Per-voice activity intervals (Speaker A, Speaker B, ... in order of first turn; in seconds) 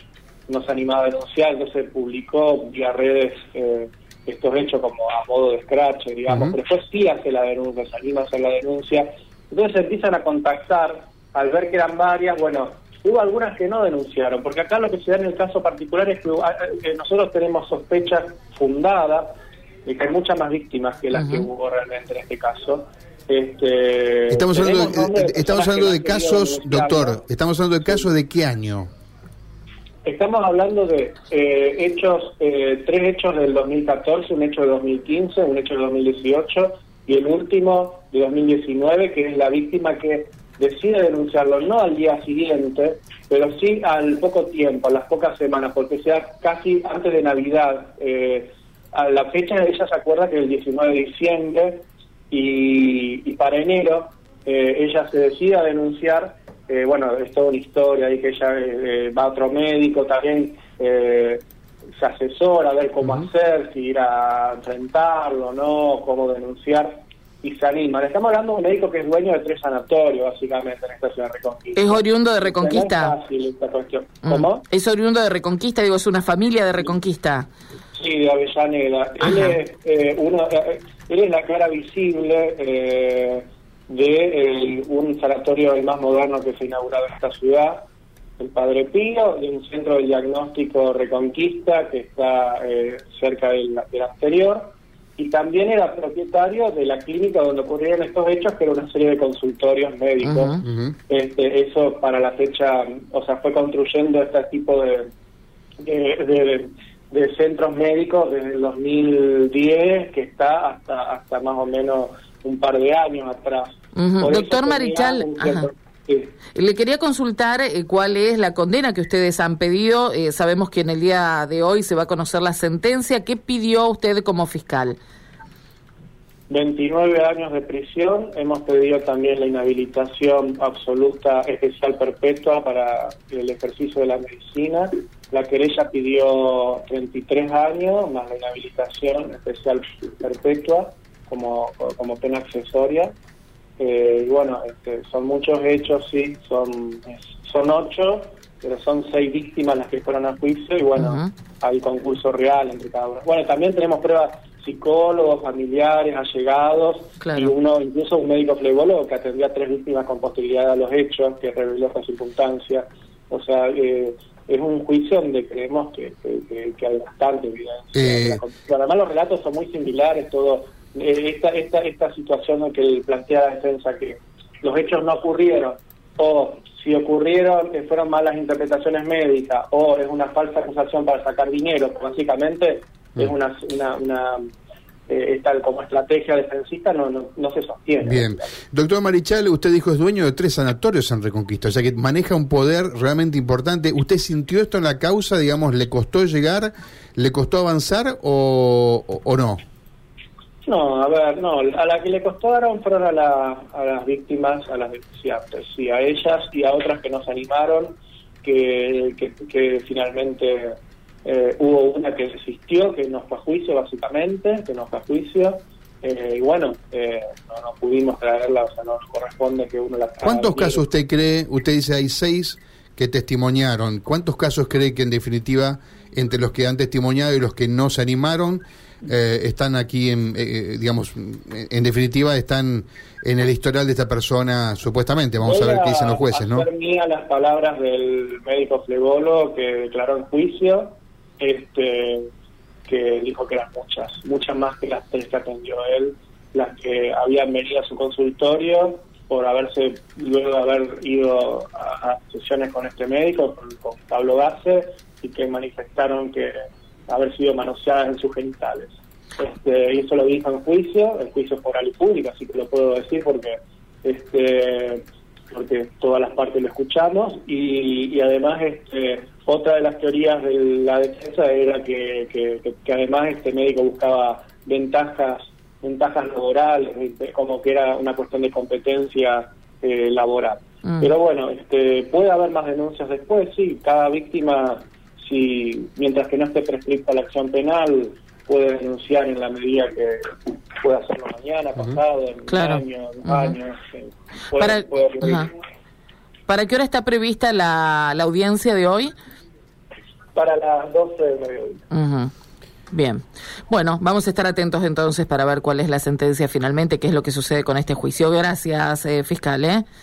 Speaker A: 0.5-27.2, 30.0-61.4, 62.0-74.6, 77.9-87.8, 88.4-105.1, 105.8-116.3, 126.5-143.1, 143.8-184.5, 185.1-188.5, 200.6-220.9, 235.4-242.3, 242.9-256.5, 257.1-295.5, 300.3-301.8
Speaker B: 6.3-6.5, 24.3-28.9, 100.7-100.9, 167.9-168.4, 188.0-199.6, 220.2-236.7
Speaker C: 21.1-21.5, 71.8-73.2, 74.2-77.5, 79.2-79.6, 100.2-100.6, 113.9-115.7, 116.5-125.0, 150.9-151.3, 157.2-157.5, 292.5-293.6, 294.6-295.5, 296.5-299.1, 301.9-302.3, 302.9-309.9